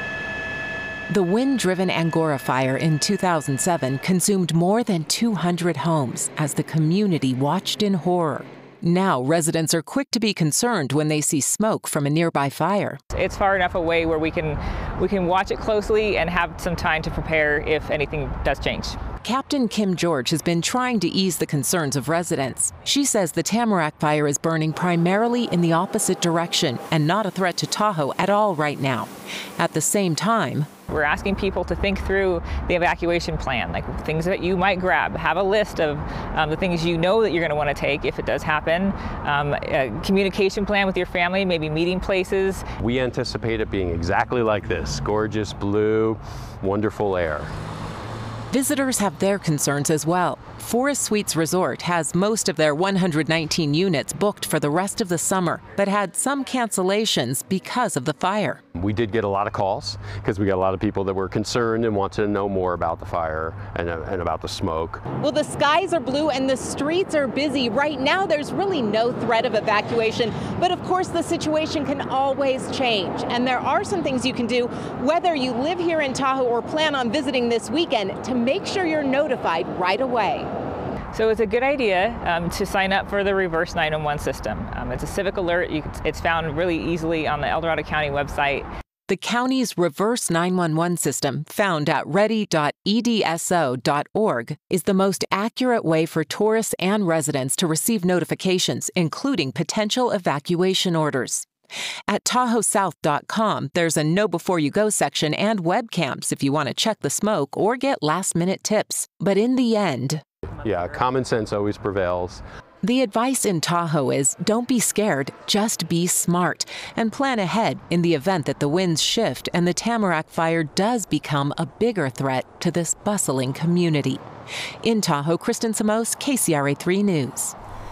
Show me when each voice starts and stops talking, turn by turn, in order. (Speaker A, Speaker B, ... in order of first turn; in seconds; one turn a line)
Speaker A: 1.1-13.0
Speaker B: 13.1-19.0
Speaker A: 19.2-30.7
Speaker B: 30.9-42.7
Speaker C: 42.8-47.5
Speaker A: 48.5-58.6
Speaker C: 58.8-65.0
Speaker D: 65.2-80.5
Speaker B: 81.1-88.7
Speaker A: 89.1-101.5
Speaker A: 102.1-110.2
Speaker C: 110.6-112.4
Speaker A: 112.8-124.2
Speaker A: 124.8-127.5